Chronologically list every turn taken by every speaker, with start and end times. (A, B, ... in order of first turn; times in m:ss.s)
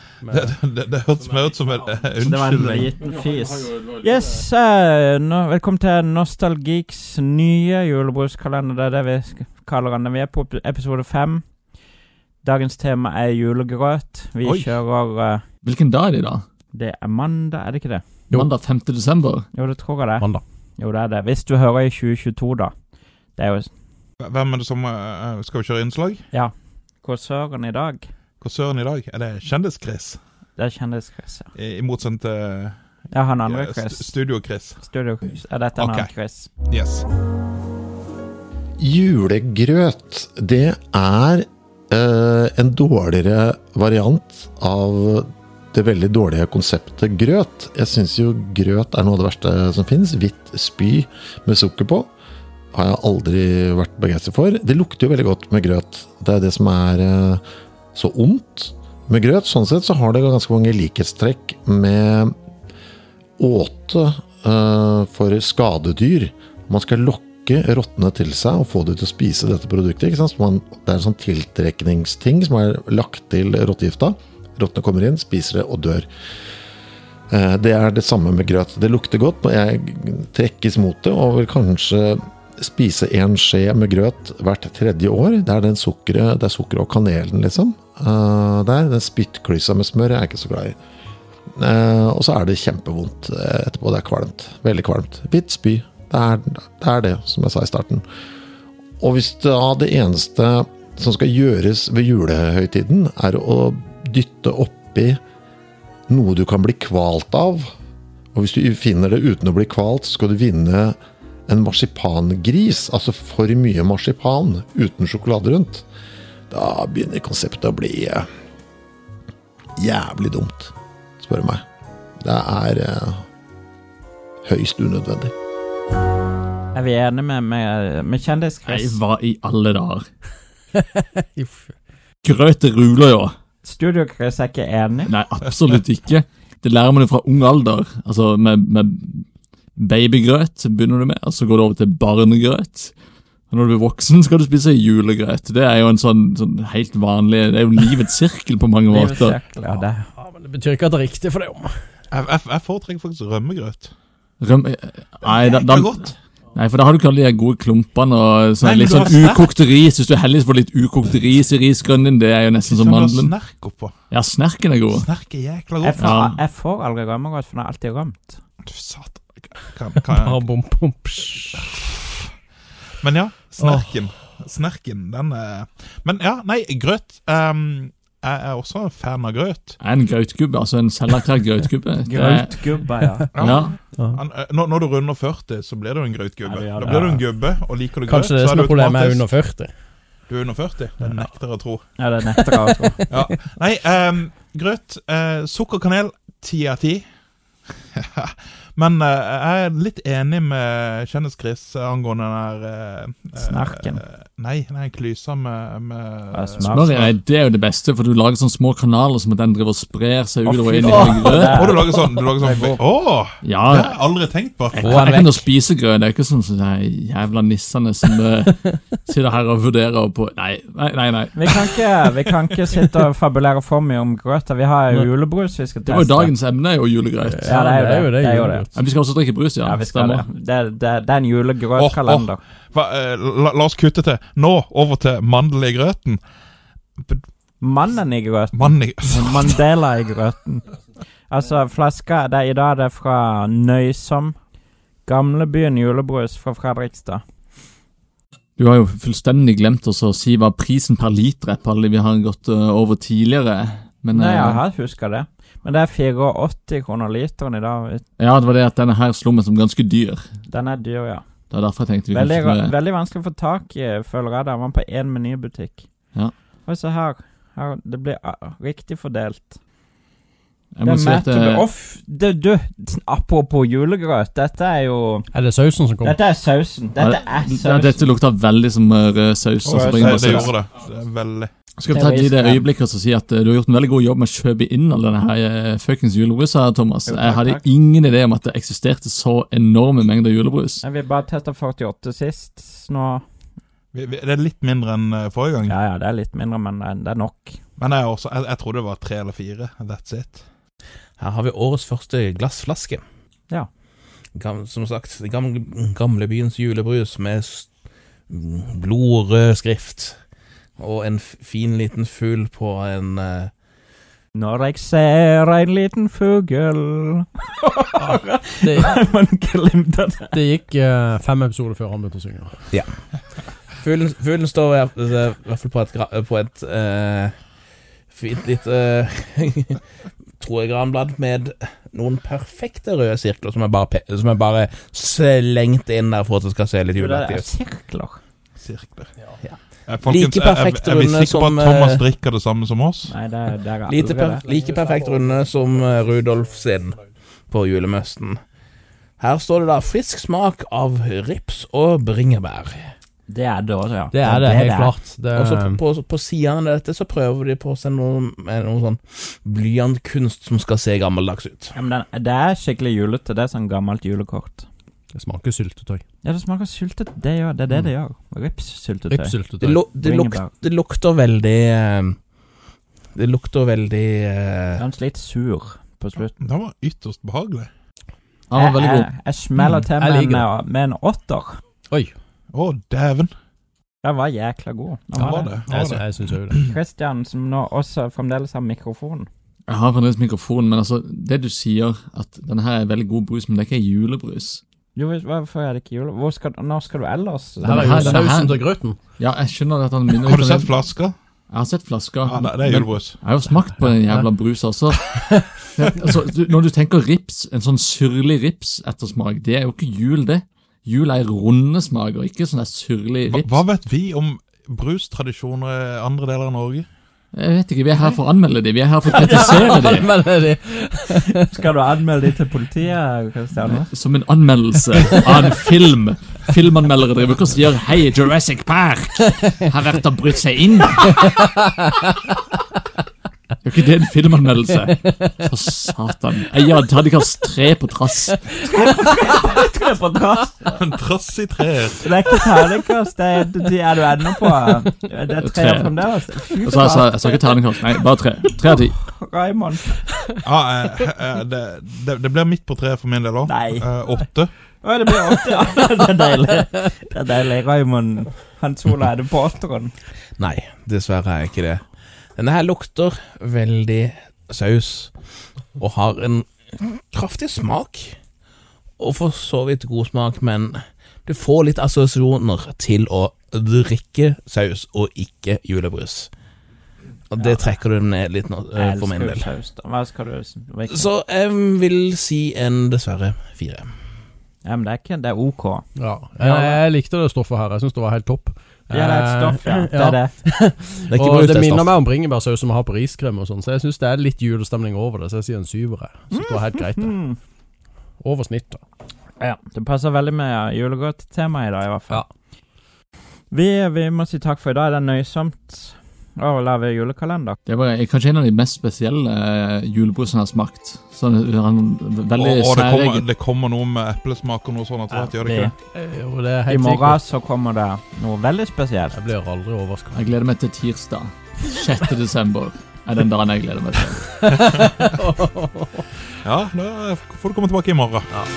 0:00.2-0:00.6 A
0:00.3-0:02.9 B
0:02.2-0:11.6 C
0:12.4-0:15.4 C
0:14.4-0:14.7 B
0:15.6-0:16.4 D
0:16.7-0:18.0 C
0:18.3-0:19.4 D
0:19.5-0:22.7 C
0:23.4-0:23.7 C
0:24.2-0:26.2 B
0:26.3-0:28.1 C
0:28.4-0:30.2 B
0:30.6-0:31.5 C
0:31.6-0:32.8 B
0:33.1-0:34.1 C
0:33.5-0:34.8 B
0:34.8-0:36.5 C
0:35.8-0:36.1 B
0:36.7-0:37.1 B
0:38.8-0:52.1 E
0:52.7-0:57.4 E
0:58.0-1:02.4 E
1:03.4-1:16.1 E
1:17.3-1:30.8 E
1:31.6-1:38.0 E
1:39.0-1:45.2 E
1:46.1-1:47.7 E
1:48.3-1:51.0 E
1:51.5-1:55.8 E
1:56.5-1:58.3 E
1:59.8-2:01.6 E
2:02.2-2:03.2 E
2:04.4-2:05.3 E
2:06.7-2:09.0 C
2:08.7-2:10.1 D
2:10.7-2:11.8 A
2:12.2-2:13.4 D
2:13.6-2:15.1 C
2:15.1-2:22.9 D
2:23.5-2:29.4 D
2:28.9-2:30.1 C
2:29.7-2:31.7 A
2:32.1-2:33.9 B
2:34.4-2:43.3 D
2:35.3-2:36.1 B
2:38.6-2:39.4 B
2:42.6-2:43.9 B
2:44.1-2:45.1 D
2:44.9-2:46.0 B
2:45.8-2:48.4 C
2:46.0-2:46.4 D
2:48.6-2:50.4 B
2:50.0-2:51.8 A
2:53.0-2:59.8 B
2:59.8-3:02.6 D
3:02.1-3:03.3 C
3:02.2-3:03.4 A
3:03.4-3:09.3 B
3:03.4-3:03.8 D
3:06.4-3:07.2 C
3:08.1-3:09.7 A
3:10.3-3:11.8 B
3:12.0-3:13.1 C
3:12.5-3:13.4 A
3:13.1-3:17.1 B
3:18.0-3:27.1 B
3:23.4-3:24.0 C
3:26.3-3:27.0 C
3:26.6-3:31.7 D
3:30.5-3:32.0 A
3:30.8-3:32.8 C
3:30.9-3:34.9 B
3:33.4-3:34.0 D
3:34.7-3:41.5 D
3:34.8-3:35.3 C
3:34.9-3:35.3 F
3:41.4-3:46.3 C
3:45.9-3:47.5 D
3:47.2-3:48.8 A
3:47.4-3:48.7 C
3:48.8-3:50.2 D
3:49.6-3:52.4 C
3:51.8-3:56.2 B
3:57.6-4:00.7 C
3:58.5-3:59.5 B
4:01.3-4:04.4 C
4:05.0-4:07.2 C
4:08.6-4:14.6 D
4:14.1-4:18.0 C
4:18.2-4:20.2 D
4:20.5-4:21.2 C
4:21.5-4:22.7 D
4:22.1-4:25.9 C
4:26.6-4:29.6 C
4:30.8-4:31.6 D
4:30.8-4:35.3 C
4:35.3-4:36.2 A
4:36.0-4:38.1 C
4:37.0-4:40.5 D
4:39.6-4:41.5 B
4:39.7-4:40.6 C
4:41.8-4:50.8 D
4:41.9-4:42.6 C
4:47.1-4:47.6 C
4:50.8-4:53.2 C
4:53.9-4:55.8 B
4:55.7-4:57.6 C
4:57.8-5:00.4 B
5:01.2-5:03.0 F
5:04.4-5:07.7 F
5:08.3-5:10.2 F
5:10.8-5:13.5 F
5:14.4-5:20.4 C
5:18.6-5:19.0 A
5:20.3-5:22.6 A
5:23.8-5:27.4 F
5:28.1-5:29.8 F
5:30.4-5:37.5 F
5:37.0-5:38.2 C
5:38.6-5:39.1 B
5:39.4-5:42.0 F
5:39.9-5:43.1 B
5:43.1-5:44.5 C
5:43.8-5:48.4 F
5:49.2-5:52.9 F
5:53.3-5:54.9 C
5:54.1-5:55.8 A
5:55.4-6:01.7 F
6:01.8-6:04.7 C
6:05.1-6:06.0 A
6:06.2-6:09.4 C
6:09.1-6:09.8 A
6:09.6-6:12.2 F
6:10.0-6:10.5 C
6:13.2-6:14.8 F
6:14.8-6:16.4 C
6:16.4-6:17.7 B
6:18.5-6:19.1 D
6:18.6-6:21.6 C
6:20.0-6:20.5 A
6:21.9-6:22.2 A
6:22.5-6:23.3 B
6:24.0-6:25.5 C
6:25.2-6:26.7 B
6:25.2-6:26.6 A
6:26.6-6:29.3 C
6:29.7-6:34.6 D
6:35.0-6:38.2 C
6:37.6-6:38.7 D
6:37.6-6:39.0 A
6:39.2-6:40.7 D
6:40.2-6:41.1 B
6:41.5-6:45.1 D
6:42.3-6:43.2 B
6:43.8-6:44.2 A
6:45.2-6:45.6 A
6:45.8-6:53.6 D
6:53.3-6:56.9 B
6:57.3-7:00.1 D
6:59.1-7:01.6 A
7:01.4-7:03.9 C
7:03.7-7:11.3 D
7:11.3-7:11.9 A
7:13.6-7:18.4 D
7:18.6-7:20.7 C
7:20.7-7:22.0 B
7:22.0-7:27.4 C
7:25.4-7:25.9 D
7:26.6-7:29.0 D
7:28.7-7:30.1 C
7:30.4-7:34.5 B
7:33.5-7:33.9 C
7:34.8-7:39.9 C
7:40.4-7:41.8 F
7:42.4-7:45.1 F
7:45.8-7:48.2 F
7:49.0-7:56.3 F
7:57.3-7:59.5 F
7:57.4-7:57.6 C
7:58.8-8:01.1 C
8:00.9-8:03.9 F
8:04.6-8:05.8 C
8:06.0-8:17.1 A
8:06.4-8:06.8 C
8:08.9-8:10.4 C
8:11.1-8:12.0 F
8:16.3-8:17.4 C
8:18.2-8:18.8 A
8:19.4-8:22.2 C
8:23.5-8:27.6 C
8:27.7-8:33.3 D
8:32.4-8:35.7 B
8:35.1-8:35.7 C
8:35.9-8:37.2 A
8:36.7-8:39.2 C
8:39.1-8:40.3 A
8:40.1-8:44.4 D
8:44.3-8:46.0 A
8:46.4-8:48.2 B